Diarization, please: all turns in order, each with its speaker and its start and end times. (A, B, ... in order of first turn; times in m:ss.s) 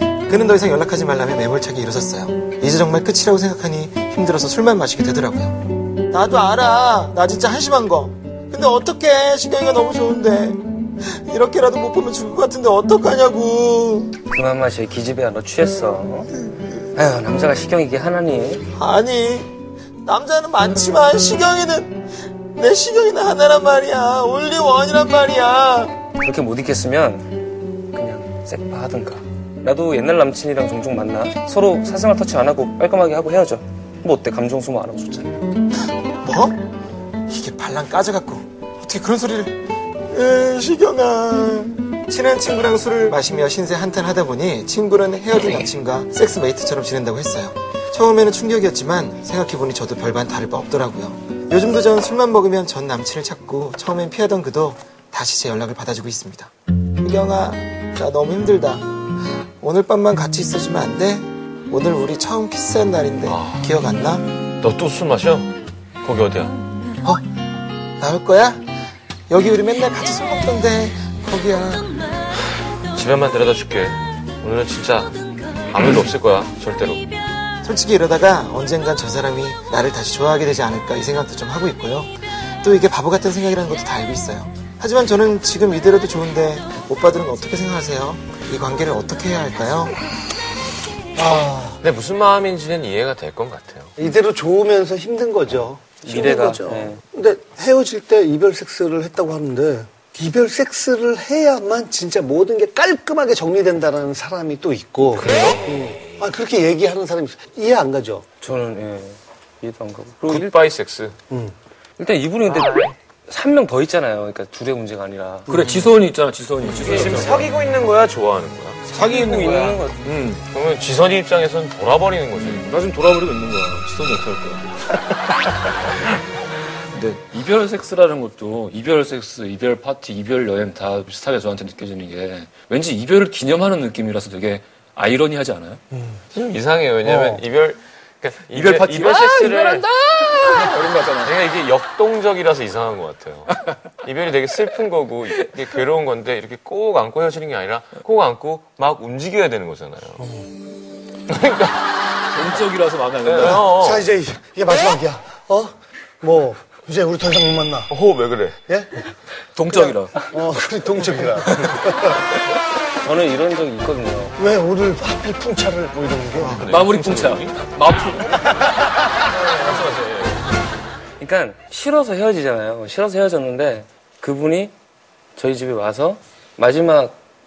0:00.3-0:05.6 A
0:06.1-0:14.1 A
0:14.3-0:16.3 B
0:16.9-0:18.7 B
0:18.7-0:19.5 A
0:20.0-0:26.0 A
0:26.2-0:35.4 B
0:36.2-0:36.6 A
0:37.3-0:58.9 A
0:59.6-1:04.2 A
1:03.2-1:03.8 C
1:04.6-1:06.6 C
1:08.0-1:08.6 A
1:09.3-1:11.9 A
1:12.9-1:15.2 C
1:15.7-1:17.0 C
1:17.6-1:22.1 A
1:22.6-1:30.0 A
1:31.2-1:31.8 D
1:31.8-1:33.9 C
1:34.0-1:48.2 D
1:36.0-1:37.0 B
1:45.2-1:45.7 C
1:48.4-1:50.7 B
1:50.3-1:51.1 C
1:52.0-1:55.6 B
1:55.5-1:57.5 E
1:55.6-1:55.9 C
1:56.6-1:59.8 C
1:56.7-1:57.2 B
1:58.9-2:00.1 B
2:00.0-2:00.4 E
2:00.5-2:02.7 C
2:02.4-2:04.6 E
2:07.0-2:15.8 E
2:16.3-2:19.9 C
2:17.0-2:17.4 D
2:18.5-2:21.3 E
2:21.2-2:30.2 C
2:31.3-2:32.5 C
2:32.3-2:33.6 E
2:33.2-2:34.0 C
2:33.6-2:37.9 D
2:37.9-2:38.6 C
2:38.7-2:39.1 D
2:39.6-2:40.2 E
2:39.7-2:42.4 D
2:43.0-2:44.4 B
2:44.4-2:46.6 D
2:46.4-2:47.7 C
2:46.7-2:48.4 E
2:49.2-2:50.5 C
2:51.2-2:54.7 B
2:55.4-2:57.2 B